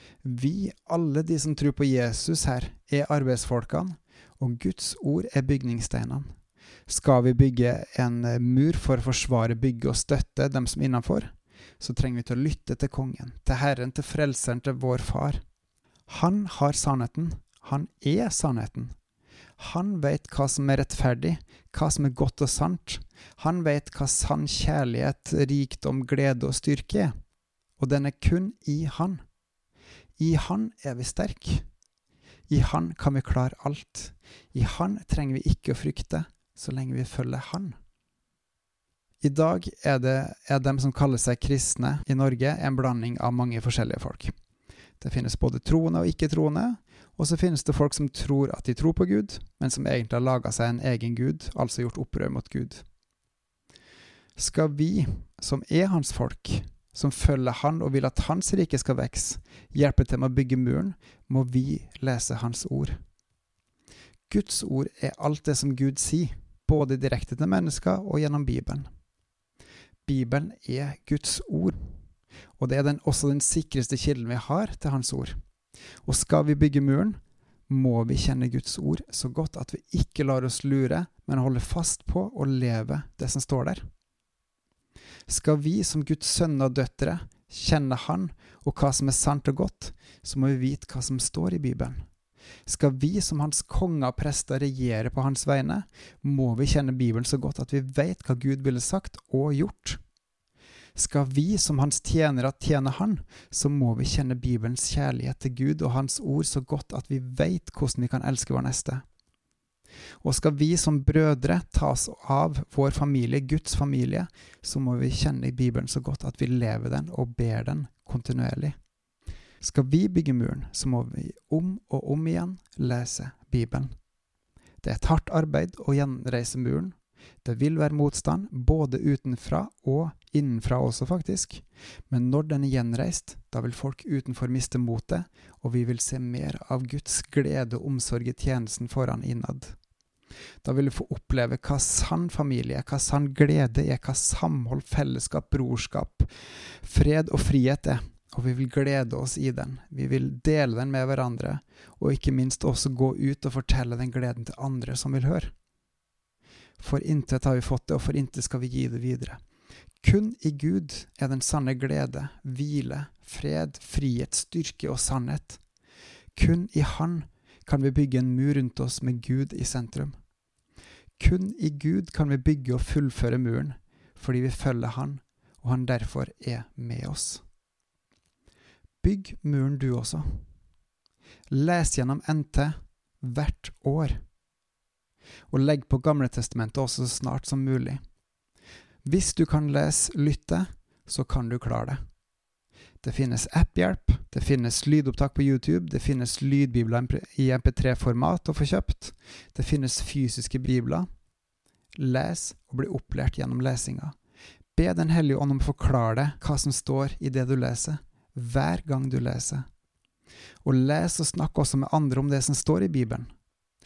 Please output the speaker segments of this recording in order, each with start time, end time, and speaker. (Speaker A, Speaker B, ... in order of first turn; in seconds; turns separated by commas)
Speaker A: 0.2-6.3, Speaker A: 6.9-15.4, Speaker A: 16.1-18.9, Speaker A: 19.6-27.1, Speaker A: 27.8-29.2, Speaker A: 30.2-31.7, Speaker A: 32.5-37.8, Speaker A: 39.2-44.3, Speaker A: 45.0-52.8, Speaker A: 54.4-63.0, Speaker A: 64.3-68.9, Speaker A: 70.1-71.8, Speaker A: 72.6-75.4, Speaker A: 76.0-83.8, Speaker A: 85.3-92.0, Speaker A: 92.7-100.0, Speaker A: 101.0-109.0, Speaker A: 110.2-118.8, Speaker A: 119.6-123.9, Speaker A: 124.8-139.8, Speaker A: 140.6-146.3, Speaker A: 146.8-155.5, Speaker A: 156.8-159.4, Speaker A: 160.0-165.6, Speaker A: 166.4-170.1, Speaker A: 171.2-177.4, Speaker A: 179.0-180.4, Speaker A: 181.5-184.2, Speaker A: 185.5-188.0, Speaker A: 189.1-192.0, Speaker A: 193.0-201.1, Speaker A: 202.0-204.1, Speaker A: 204.8-209.6, Speaker A: 210.6-213.3